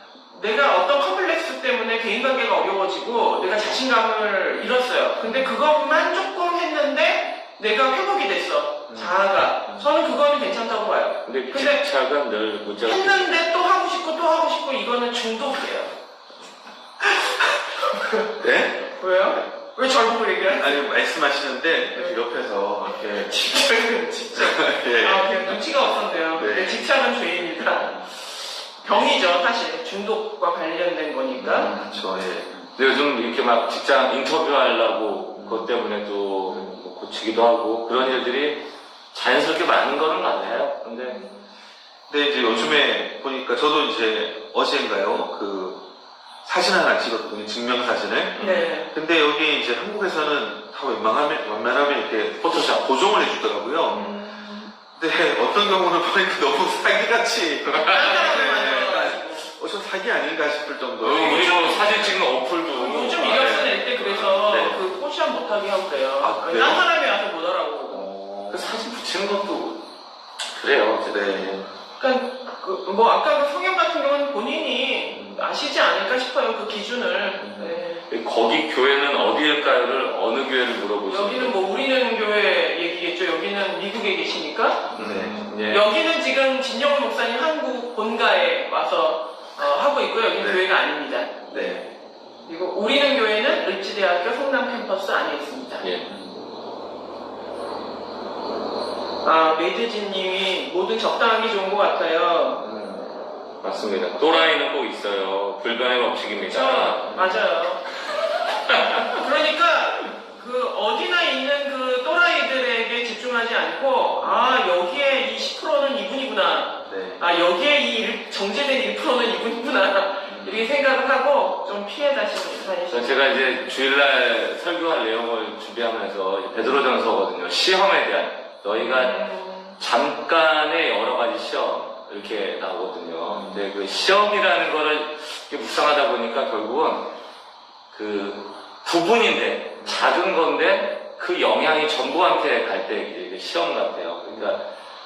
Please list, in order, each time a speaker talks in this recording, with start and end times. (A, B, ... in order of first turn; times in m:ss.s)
0:00.3-0:11.8 A
0:05.2-0:05.5 B
0:08.9-0:09.2 B
0:11.2-0:13.3 C
0:12.8-0:15.9 A
0:17.8-0:18.3 A
0:18.4-0:18.9 B
0:19.0-0:20.9 A
0:20.6-0:23.4 B
0:21.9-0:22.2 A
0:22.8-0:31.7 A
0:24.3-0:25.6 B
0:26.3-0:26.8 B
0:28.8-0:29.1 B
0:31.4-0:32.7 B
0:32.7-0:41.2 C
0:35.3-0:35.7 B
0:36.5-0:36.7 B
0:37.9-0:38.2 B
0:40.3-0:40.6 B
0:41.0-0:41.4 A
0:42.1-0:45.8 B
0:42.5-0:42.8 C
0:46.4-0:54.2 B
0:48.3-0:48.7 C
0:48.4-0:48.9 A
0:52.4-0:52.8 C
0:53.9-0:54.7 A
0:54.9-1:02.1 B
0:57.7-0:58.3 C
0:57.9-0:59.4 A
1:01.0-1:04.2 C
1:01.1-1:02.2 A
1:02.7-1:08.1 A
1:04.0-1:04.8 B
1:06.2-1:06.8 B
1:07.9-1:08.8 B
1:08.5-1:09.8 C
1:10.5-1:11.6 C
1:11.1-1:11.7 B
1:12.0-1:18.0 A
1:15.1-1:15.5 B
1:17.4-1:17.7 B
1:17.4-1:21.5 C
1:21.1-1:24.9 A
1:24.9-1:25.8 C
1:25.0-1:25.4 B
1:25.7-1:31.8 A
1:30.4-1:30.6 B
1:31.5-1:31.9 B
1:32.5-1:35.9 A
1:35.8-1:36.1 C
1:36.1-1:36.4 B
1:39.2-1:42.6 A
1:42.6-1:43.1 B
1:43.6-1:47.1 C
1:46.4-1:47.8 A
1:47.1-1:47.6 B
1:48.0-1:49.0 C
1:48.9-2:03.4 A
1:54.2-1:54.6 B
1:56.8-1:57.2 B
2:00.2-2:00.7 B
2:02.9-2:09.2 C
2:06.5-2:06.8 B
2:08.7-2:09.8 A
2:09.8-2:17.1 C
2:13.3-2:13.6 B
2:17.9-2:24.7 C
2:19.8-2:20.1 B
2:24.3-2:24.6 B